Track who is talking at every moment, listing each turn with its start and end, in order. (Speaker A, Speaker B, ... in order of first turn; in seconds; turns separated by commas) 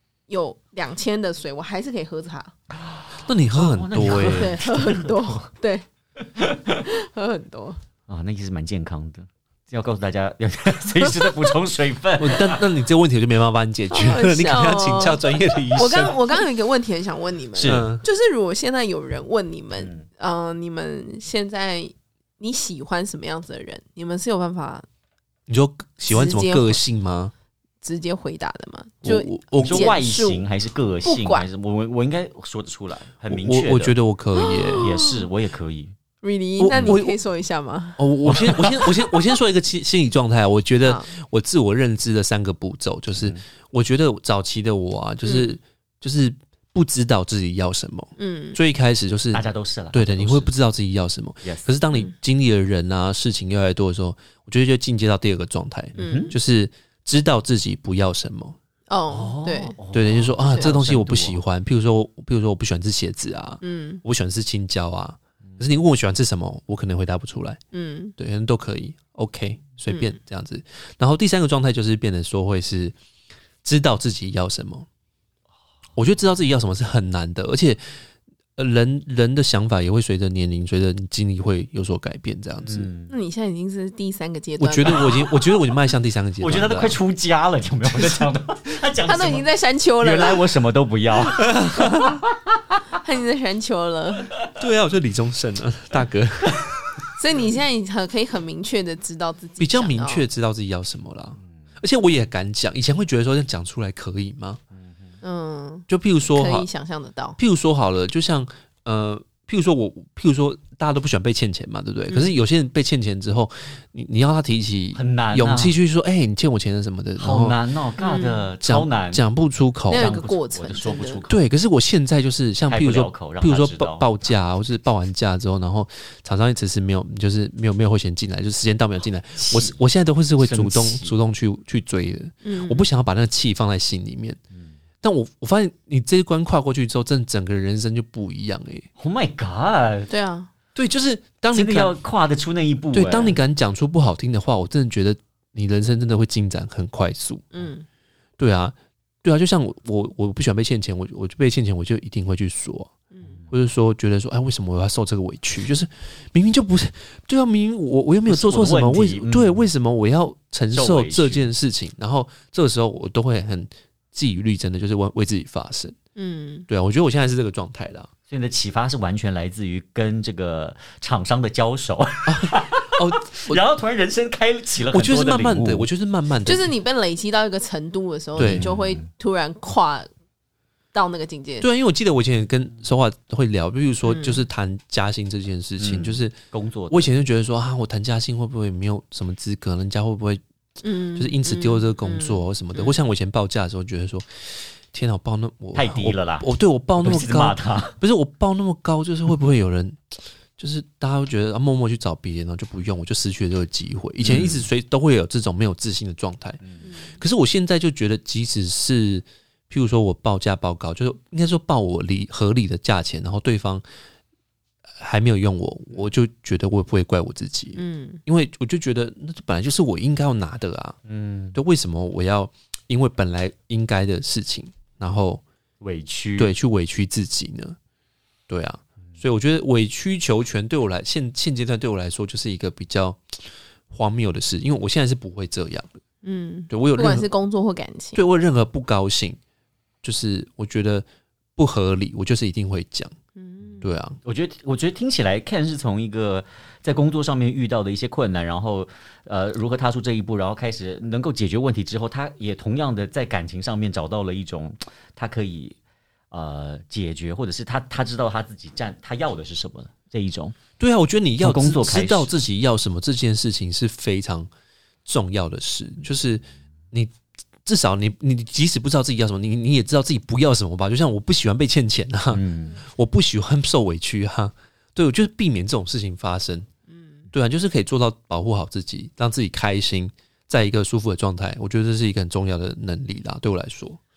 Speaker A: 0.3-2.5, Speaker B: 2.7-5.4, Speaker C: 3.3-4.6, Speaker A: 4.2-5.8, Speaker B: 6.4-6.8, Speaker A: 6.8-7.8, Speaker B: 8.1-12.6, Speaker C: 12.2-16.4, Speaker A: 13.9-15.2, Speaker A: 15.8-24.9, Speaker B: 17.6-17.9, Speaker C: 17.6-18.0, Speaker B: 19.8-20.0, Speaker C: 25.5-27.3, Speaker A: 26.1-26.8, Speaker A: 27.8-30.4, Speaker C: 29.0-30.0, Speaker B: 29.6-34.0, Speaker A: 31.0-31.5, Speaker C: 33.3-34.9, Speaker A: 34.4-35.3, Speaker B: 34.8-35.9, Speaker A: 36.2-38.0, Speaker C: 36.6-37.2, Speaker B: 36.7-37.0, Speaker C: 38.0-58.6, Speaker B: 38.3-38.9, Speaker B: 43.1-43.4, Speaker A: 45.2-45.5, Speaker A: 48.2-48.6, Speaker B: 49.3-50.5, Speaker B: 51.4-51.7, Speaker B: 56.0-56.4, Speaker A: 56.0-56.4, Speaker A: 58.9-59.8, Speaker B: 59.1-61.4, Speaker C: 59.9-67.6, Speaker A: 63.6-64.0, Speaker A: 67.7-68.2, Speaker C: 68.2-73.0, Speaker A: 69.9-70.2, Speaker C: 73.6-74.9, Speaker C: 76.0-77.8, Speaker C: 78.6-82.9, Speaker B: 82.6-83.1, Speaker A: 83.1-85.2, Speaker C: 84.6-87.0, Speaker B: 84.9-85.3, Speaker B: 86.4-89.5, Speaker A: 89.1-90.5, Speaker B: 90.0-92.5, Speaker C: 91.4-92.1, Speaker A: 93.0-94.3, Speaker C: 94.6-96.8, Speaker A: 97.2-100.2, Speaker C: 99.6-104.6, Speaker B: 104.8-105.1, Speaker A: 105.2-107.4, Speaker C: 105.9-106.7, Speaker C: 107.4-117.6, Speaker B: 115.0-115.8, Speaker B: 117.2-119.2, Speaker A: 118.0-118.5, Speaker C: 118.6-120.1, Speaker A: 119.9-121.2, Speaker B: 119.9-121.4, Speaker C: 121.3-134.4, Speaker B: 122.7-124.1, Speaker B: 129.4-129.8, Speaker B: 130.4-131.2, Speaker A: 132.4-132.8, Speaker C: 135.0-138.9, Speaker B: 139.0-140.1, Speaker A: 140.1-140.5, Speaker C: 140.8-141.9, Speaker B: 141.5-143.4, Speaker C: 142.9-147.5, Speaker A: 147.5-147.8, Speaker C: 148.4-152.9, Speaker C: 153.5-166.0, Speaker B: 158.3-159.6, Speaker B: 160.7-161.5, Speaker A: 166.2-166.7, Speaker C: 166.7-168.1, Speaker B: 168.3-175.9, Speaker C: 172.3-173.6, Speaker C: 174.9-176.7, Speaker A: 176.5-180.1, Speaker C: 178.4-178.7, Speaker B: 178.4-179.0, Speaker A: 180.9-181.7, Speaker C: 181.6-186.3, Speaker A: 184.0-184.4, Speaker B: 185.8-187.1, Speaker C: 186.9-190.4, Speaker A: 190.8-193.0, Speaker C: 191.2-206.6, Speaker B: 195.8-196.5, Speaker B: 197.0-198.0, Speaker B: 204.2-204.7, Speaker A: 206.8-207.1, Speaker C: 207.1-213.8, Speaker C: 215.0-221.0, Speaker A: 217.8-218.2, Speaker B: 221.1-221.6, Speaker C: 221.5-225.4, Speaker B: 225.8-226.5, Speaker C: 226.4-227.8, Speaker C: 228.5-236.0, Speaker A: 236.2-238.2, Speaker C: 236.7-237.3, Speaker C: 238.2-239.4, Speaker C: 240.0-243.2, Speaker A: 243.4-243.9, Speaker C: 243.8-244.2, Speaker B: 244.2-255.8, Speaker B: 256.3-260.6, Speaker C: 260.8-264.5, Speaker B: 261.4-262.4, Speaker C: 265.1-267.1, Speaker C: 267.6-276.7, Speaker B: 272.3-272.8, Speaker A: 276.9-277.2, Speaker C: 277.3-284.0